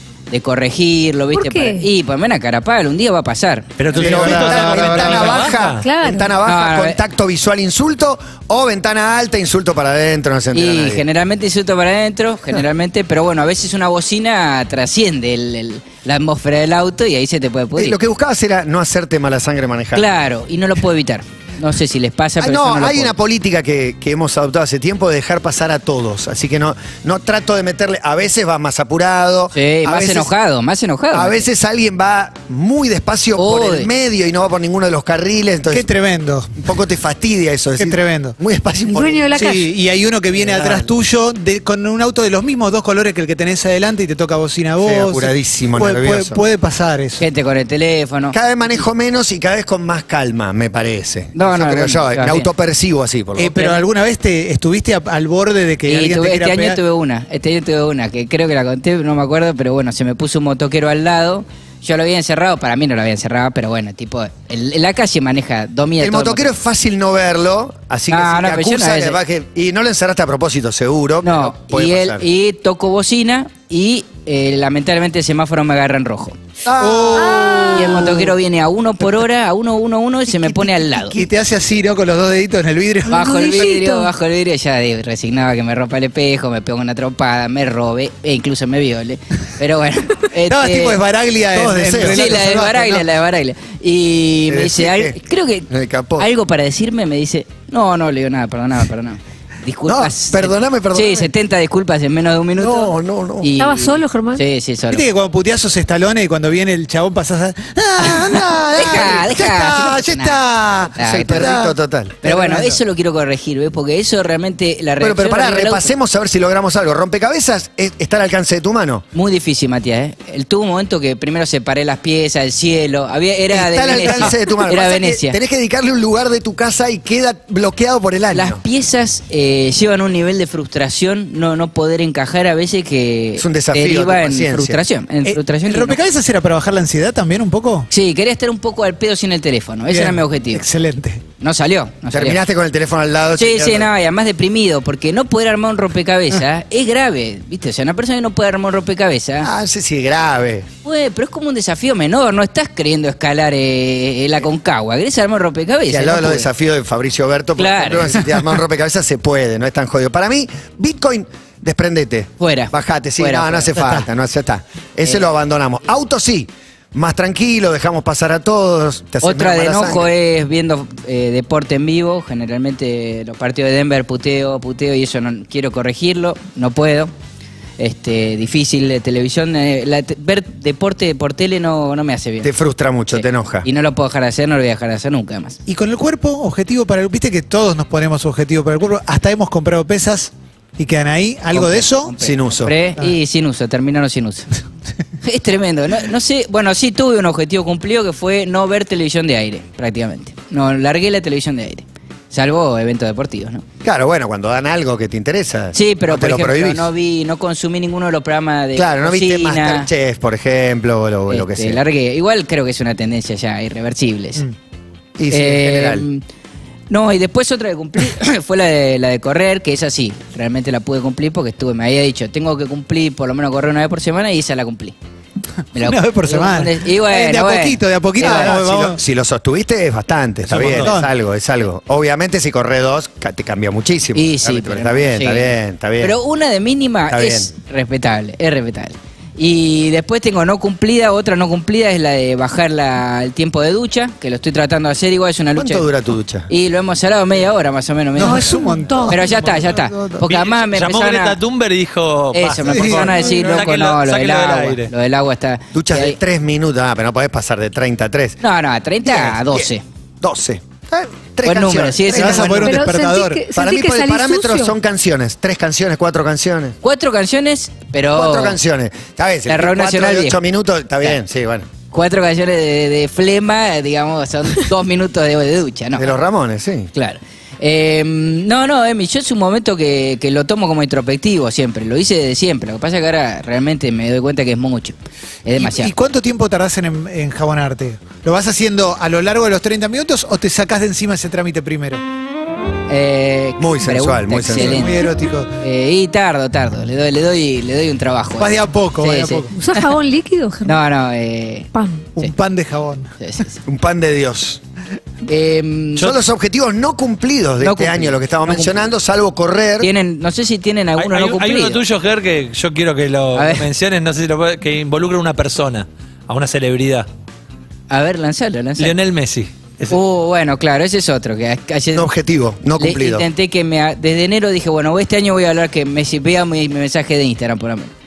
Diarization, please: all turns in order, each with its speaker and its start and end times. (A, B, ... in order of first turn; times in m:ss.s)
0:00.3-0:03.8 A
0:01.3-0:01.9 B
0:03.8-0:05.8 C
0:03.9-0:11.0 D
0:03.9-0:05.5 E
0:05.8-0:06.3 B
0:06.4-0:07.0 A
0:10.5-0:18.0 A
0:17.8-0:20.1 D
0:19.9-0:23.1 A
0:22.4-0:30.3 D
0:29.5-0:31.5 A
0:31.1-0:35.9 D
0:33.4-0:33.9 A
0:35.7-0:36.5 E
0:36.6-0:39.3 D
0:37.8-0:38.3 E
0:38.9-0:39.6 B
0:39.3-0:47.2 E
0:40.4-0:40.9 D
0:44.8-0:46.4 D
0:47.2-0:48.4 A
0:48.3-0:53.6 D
0:51.3-0:52.5 A
0:53.4-0:56.8 E
0:53.5-0:53.8 A
0:55.8-1:06.5 A
1:06.0-1:12.3 D
1:08.1-1:09.2 A
1:11.2-1:16.4 A
1:16.6-1:18.1 D
1:16.8-1:18.3 E
1:17.2-1:17.9 B
1:17.7-1:21.2 A
1:20.3-1:21.0 D
1:21.1-1:23.6 E
1:23.1-1:24.1 B
1:23.1-1:31.0 A
1:30.5-1:33.0 E
1:31.5-1:32.5 D
1:32.0-1:45.0 A
1:34.5-1:35.2 D
1:35.7-1:36.3 D
1:39.8-1:41.3 D
1:42.6-1:43.5 D
1:43.6-1:44.4 B
1:44.9-1:52.8 E
1:48.0-1:51.5 A
1:51.0-1:52.2 D
1:52.2-1:55.9 A
1:55.0-1:59.0 D
1:59.1-2:05.4 A
2:03.5-2:08.6 D
2:08.3-2:16.0 A
2:13.4-2:14.8 D
2:15.2-2:17.9 E
2:17.9-2:20.6 A
2:19.9-2:21.2 E
2:21.4-2:22.4 A
2:22.1-2:23.9 D
2:23.4-2:29.5 A
2:29.4-2:30.7 D
2:30.8-2:36.5 A
2:35.9-2:50.1 D
2:37.6-2:38.2 A
2:42.4-2:43.8 A
2:43.8-2:44.0 E
2:49.2-2:57.1 A
2:57.8-3:02.5 A
3:02.4-3:03.7 D
3:03.1-3:05.6 A
3:05.7-3:12.1 E
3:11.5-3:14.5 A
3:12.2-3:12.8 D
3:15.2-3:23.6 A
3:23.8-3:26.9 D
3:25.7-3:29.9 A
3:28.7-3:31.8 D
3:31.3-3:34.4 A
3:35.2-3:36.0 D
3:35.3-3:36.2 A
3:36.9-3:44.9 A
3:45.7-3:48.5 A
3:45.8-3:49.0 E
3:48.2-3:56.2 D
3:50.5-3:50.9 C
3:50.7-3:51.1 E
3:54.1-4:05.9 A
3:57.1-3:57.5 D
4:05.5-4:06.5 D
4:06.5-4:11.4 A
4:08.2-4:10.2 E
4:08.2-4:09.4 B
4:10.3-4:14.9 C
4:12.3-4:16.2 A
4:12.6-4:13.6 E
4:15.7-4:18.4 D
4:18.4-4:19.8 A
4:19.0-4:22.8 D
4:21.4-4:22.7 A
4:22.1-4:23.4 E
4:22.6-4:24.7 B
4:23.5-4:26.8 D
4:26.8-4:28.6 A
4:28.1-4:31.7 D
4:29.4-4:30.4 A
4:31.9-4:36.1 A
4:35.9-4:36.9 D
4:36.9-4:45.9 A
4:45.6-4:52.0 E
4:52.9-4:55.0 A
4:53.6-4:55.0 D
4:54.5-4:55.5 E
4:55.6-4:59.9 A
4:58.4-4:59.5 E
4:59.5-5:00.8 B
5:00.6-5:02.3 A
5:01.7-5:02.1 B
5:02.2-5:03.1 E
5:03.2-5:03.6 A
5:03.6-5:04.6 D
5:05.2-5:06.1 A
5:06.0-5:09.9 D
5:07.6-5:08.8 A
5:09.8-5:11.8 A
5:11.0-5:17.1 C
5:13.3-5:13.6 A
5:17.9-5:18.9 A
5:18.8-5:20.0 C
5:19.9-5:22.1 A
5:21.9-5:23.2 D
5:22.8-5:27.9 A